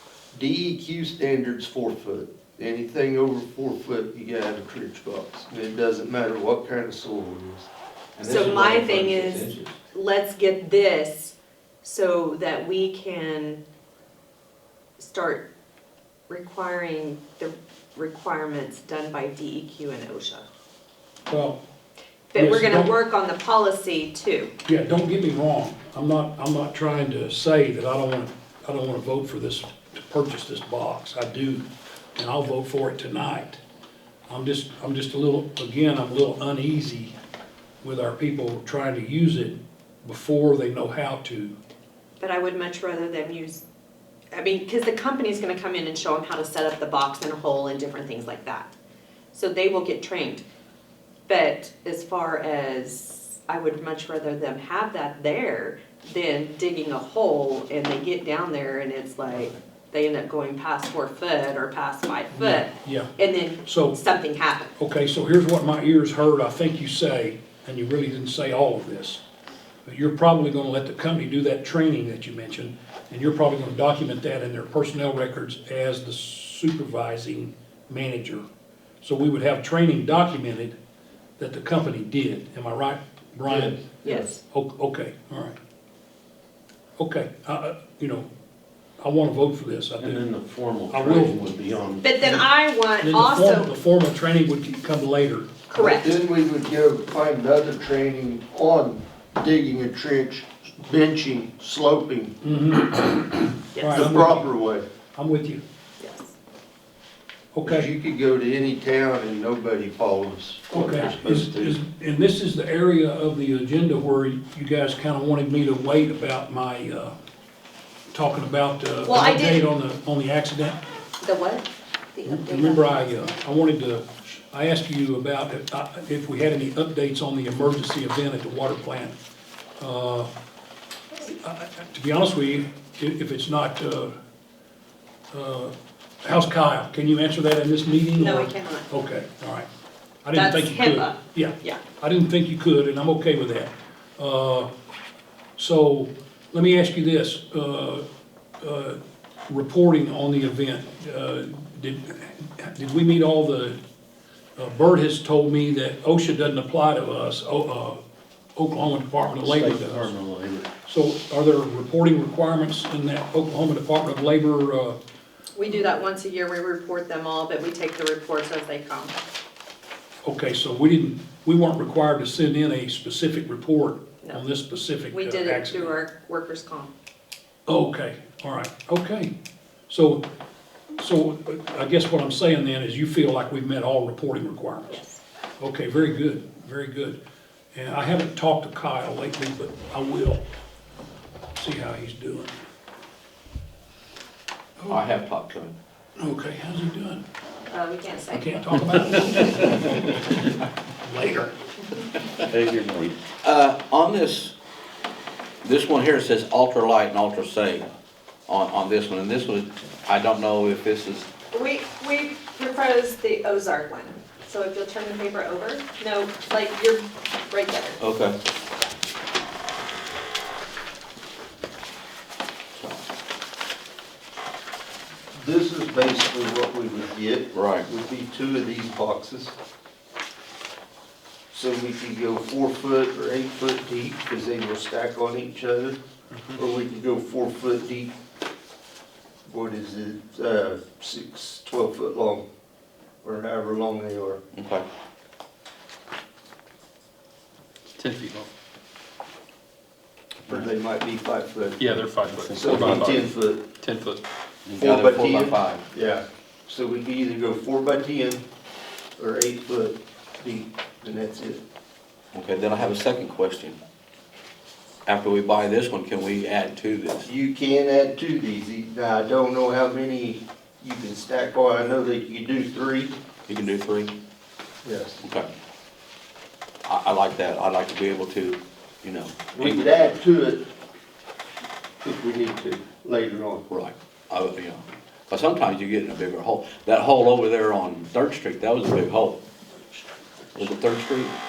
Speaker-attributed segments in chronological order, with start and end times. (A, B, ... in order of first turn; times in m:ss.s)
0:00.3-0:07.7 A
0:08.2-0:09.8 B
0:08.3-0:09.4 C
0:10.0-0:13.6 C
0:15.0-0:15.5 C
0:16.3-0:20.5 C
0:21.3-0:21.6 D
0:22.3-0:24.5 C
0:22.4-0:22.9 D
0:24.7-0:31.6 D
0:32.2-0:33.6 D
0:34.3-0:37.1 D
0:37.8-0:41.5 D
0:42.2-0:43.6 C
0:44.3-0:48.7 C
0:49.3-0:50.4 C
0:51.3-1:04.7 C
1:02.3-1:03.1 D
1:03.6-1:04.0 D
1:04.8-1:09.2 D
1:09.8-1:18.4 D
1:19.0-1:20.8 D
1:21.4-1:23.8 D
1:23.5-1:24.3 A
1:24.0-1:24.4 C
1:24.5-1:25.6 D
1:27.0-1:28.3 D
1:29.0-1:30.3 D
1:30.0-1:32.4 E
1:30.9-1:31.4 D
1:32.0-1:33.7 C
1:33.0-1:35.6 D
1:35.7-1:36.1 C
1:35.8-1:42.4 A
1:42.4-1:44.4 D
1:44.0-1:44.8 A
1:45.2-1:45.6 D
1:47.5-1:47.9 D
1:47.6-1:51.8 A
1:50.7-1:57.1 D
1:58.1-2:00.8 D
1:59.1-1:59.6 C
2:01.2-2:02.8 C
2:02.3-2:09.1 D
2:09.8-2:10.3 D
2:11.2-2:14.1 D
2:15.3-2:19.7 D
2:18.2-2:18.9 C
2:20.2-2:24.7 D
2:20.3-2:21.8 C
2:25.6-2:28.0 D
2:28.6-2:33.8 D
2:34.6-2:38.0 D
2:38.6-2:40.1 D
2:39.4-2:40.7 E
2:40.9-2:45.0 D
2:45.6-2:49.2 C
2:50.2-2:56.0 D
2:55.1-2:56.9 C
2:57.7-2:59.3 D
2:59.9-3:00.2 D
3:01.0-3:05.0 D
3:04.9-3:05.2 C
3:05.6-3:07.2 D
3:07.7-3:10.4 D
3:11.6-3:12.5 D
3:14.9-3:15.7 B
3:16.2-3:17.2 D
3:17.7-3:18.4 C
3:18.3-3:20.2 D
3:19.3-3:19.6 C
3:21.0-3:21.5 D
3:22.5-3:23.1 E
3:23.4-3:24.5 B
3:25.6-3:27.9 B
3:28.5-3:31.3 B
3:31.6-3:37.0 C
3:38.0-3:38.4 B
3:42.8-3:43.0 B
3:45.3-3:49.6 A
3:47.5-3:47.9 B
3:51.5-3:56.0 A
3:56.5-3:58.1 A
3:59.5-4:02.4 A
4:03.2-4:04.4 A
4:04.5-4:04.8 B
4:08.0-4:08.5 F
4:10.5-4:12.0 A
4:11.8-4:13.3 F
4:12.4-4:13.2 E
4:12.5-4:13.6 A
4:13.8-4:14.2 F
4:14.8-4:18.4 A
4:14.8-4:15.8 B
4:19.2-4:21.6 A
4:22.3-4:23.8 B
4:25.1-4:27.3 B
4:27.2-4:33.2 A
4:33.5-4:34.1 B
4:34.8-4:35.2 A
4:35.2-4:35.5 B
4:36.9-4:39.8 B
4:39.5-4:40.6 A
4:42.0-4:43.6 A
4:43.7-4:49.4 B
4:50.6-4:51.4 B